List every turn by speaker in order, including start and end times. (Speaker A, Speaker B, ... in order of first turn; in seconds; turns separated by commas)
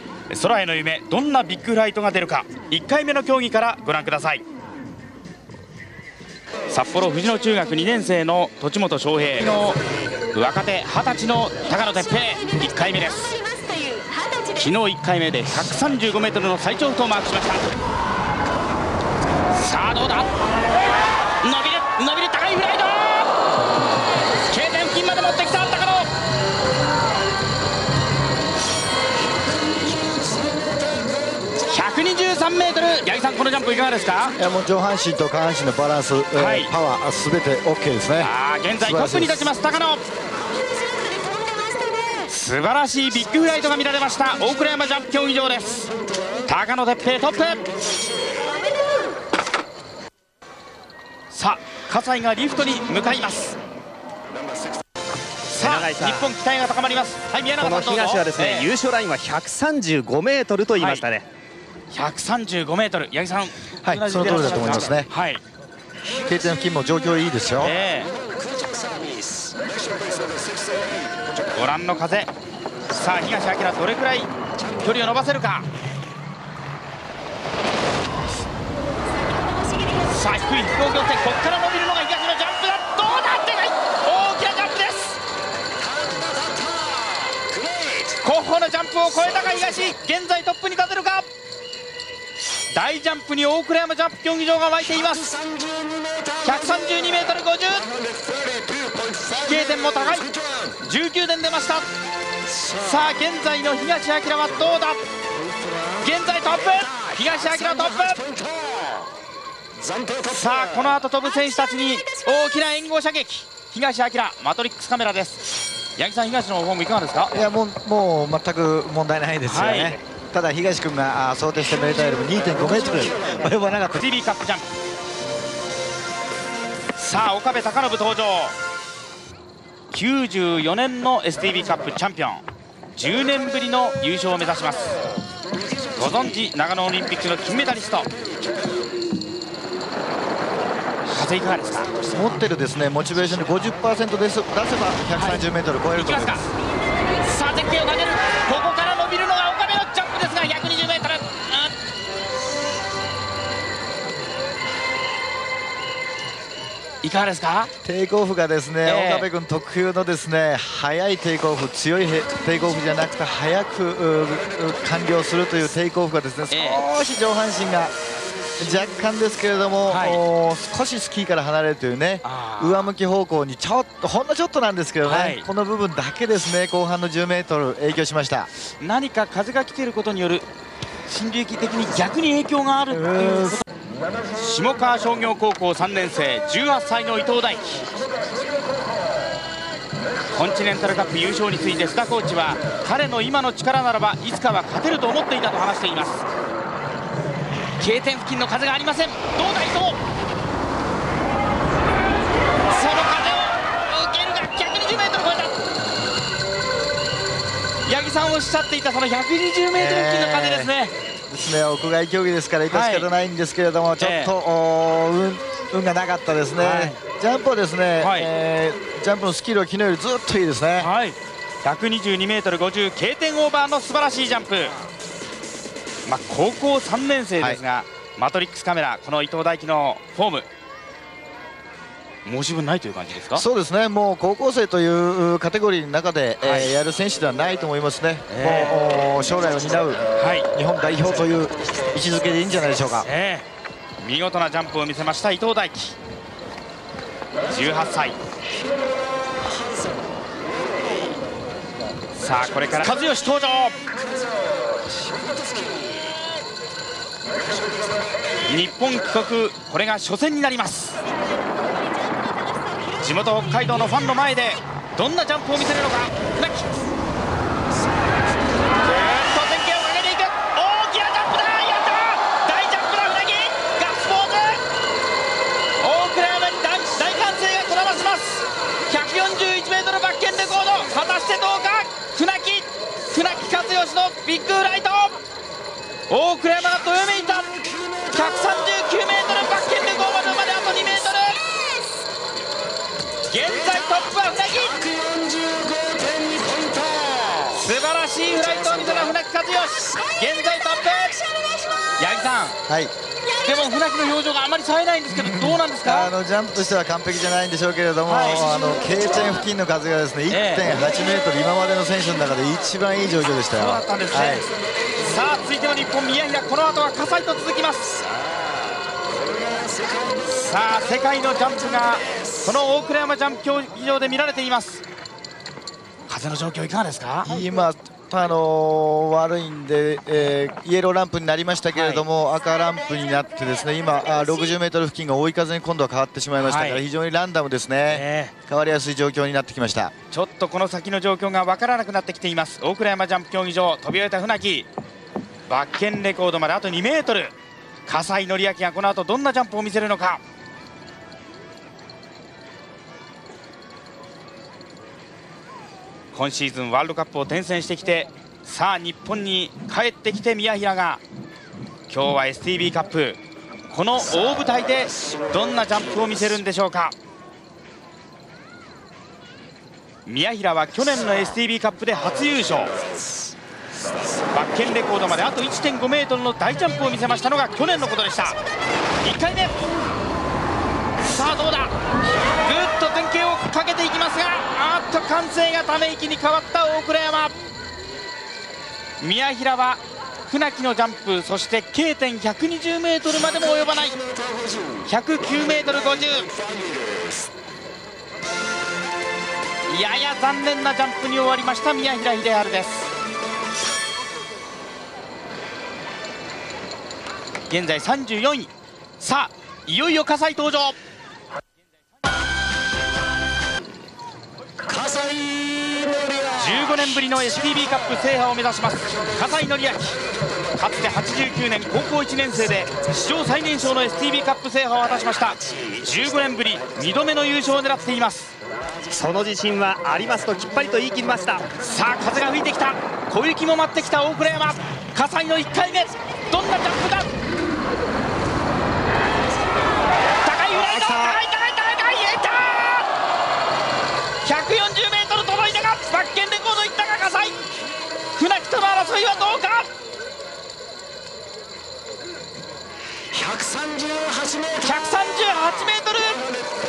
Speaker A: 0.3-4.4, Speaker A: 6.7-9.8, Speaker A: 10.3-13.4, Speaker A: 14.5-17.7, Speaker A: 19.5-20.4, Speaker A: 21.4-23.3, Speaker A: 24.5-26.1, Speaker A: 31.7-34.3, Speaker B: 34.4-39.5, Speaker A: 36.3-36.7, Speaker A: 38.2-40.0, Speaker A: 42.3-45.9, Speaker A: 46.5-47.6, Speaker A: 51.3-53.6, Speaker A: 55.5-58.7, Speaker C: 55.6-56.2, Speaker C: 57.6-61.3, Speaker A: 60.8-61.0, Speaker A: 61.9-65.4, Speaker B: 63.8-65.1, Speaker B: 66.2-67.7, Speaker A: 67.6-68.1, Speaker A: 71.5-72.3, Speaker A: 72.9-75.7, Speaker A: 80.1-85.2, Speaker A: 88.2-91.3, Speaker A: 92.7-95.3, Speaker A: 96.4-97.9, Speaker A: 99.3-101.9, Speaker A: 102.6-105.0, Speaker A: 106.0-108.2, Speaker A: 110.2-115.4, Speaker A: 116.0-117.3, Speaker B: 117.3-124.0, Speaker A: 119.5-120.0, Speaker A: 123.8-124.7, Speaker A: 126.9-128.5, Speaker A: 129.9-135.0, Speaker A: 135.9-138.1, Speaker A: 141.0-141.9, Speaker B: 142.1-146.5, Speaker A: 145.2-146.5, Speaker A: 147.2-151.7, Speaker A: 157.0-157.7, Speaker B: 157.8-167.9, Speaker A: 158.8-159.3, Speaker A: 166.5-166.8, Speaker B: 168.6-178.5, Speaker A: 169.9-170.2, Speaker A: 172.2-172.9, Speaker A: 175.0-175.5, Speaker A: 178.8-180.4, Speaker A: 181.1-183.6, Speaker B: 182.9-183.6, Speaker A: 184.3-187.8, Speaker A: 190.3-196.2, Speaker A: 197.8-200.0, Speaker A: 202.7-205.6, Speaker A: 207.8-210.9, Speaker B: 209.7-210.7, Speaker B: 211.3-220.9, Speaker A: 212.7-213.1, Speaker A: 214.0-214.3, Speaker A: 216.6-217.0, Speaker A: 218.0-218.3, Speaker A: 220.8-224.7, Speaker A: 226.0-230.5, Speaker A: 232.2-233.4, Speaker B: 233.3-240.0, Speaker A: 236.4-236.7, Speaker A: 238.3-238.8, Speaker A: 240.2-240.5, Speaker B: 240.5-243.1, Speaker A: 243.0-243.4, Speaker A: 244.0-245.9, Speaker A: 247.5-248.2, Speaker A: 252.1-253.8, Speaker A: 258.5-261.0, Speaker A: 263.0-266.7, Speaker A: 268.8-274.6, Speaker A: 275.8-285.2, Speaker A: 286.1-291.4, Speaker A: 293.3-294.9, Speaker A: 297.5-301.3, Speaker A: 302.0-302.6, Speaker B: 302.7-302.9, Speaker A: 303.3-306.1, Speaker B: 305.1-314.5, Speaker A: 308.1-308.5, Speaker A: 310.3-310.7, Speaker A: 313.5-317.9, Speaker A: 320.3-324.8, Speaker A: 326.1-327.3, Speaker B: 327.2-339.9, Speaker A: 331.7-332.0, Speaker A: 336.3-336.9, Speaker A: 337.9-338.3, Speaker A: 340.1-344.7, Speaker A: 345.5-347.3, Speaker A: 347.9-350.2, Speaker A: 356.1-361.0, Speaker A: 361.9-363.2, Speaker A: 363.7-366.9, Speaker A: 370.0-372.7, Speaker A: 374.3-378.4, Speaker A: 379.0-379.6, Speaker A: 381.0-381.7, Speaker A: 382.4-387.3, Speaker A: 389.0-394.0, Speaker A: 394.8-396.3, Speaker A: 399.7-402.9, Speaker A: 407.5-410.8, Speaker A: 416.3-420.0, Speaker A: 420.5-428.3, Speaker C: 428.9-431.4, Speaker A: 431.6-437.1, Speaker A: 440.2-442.9, Speaker B: 440.5-441.1, Speaker A: 444.2-447.4, Speaker A: 448.1-449.7, Speaker A: 454.4-456.2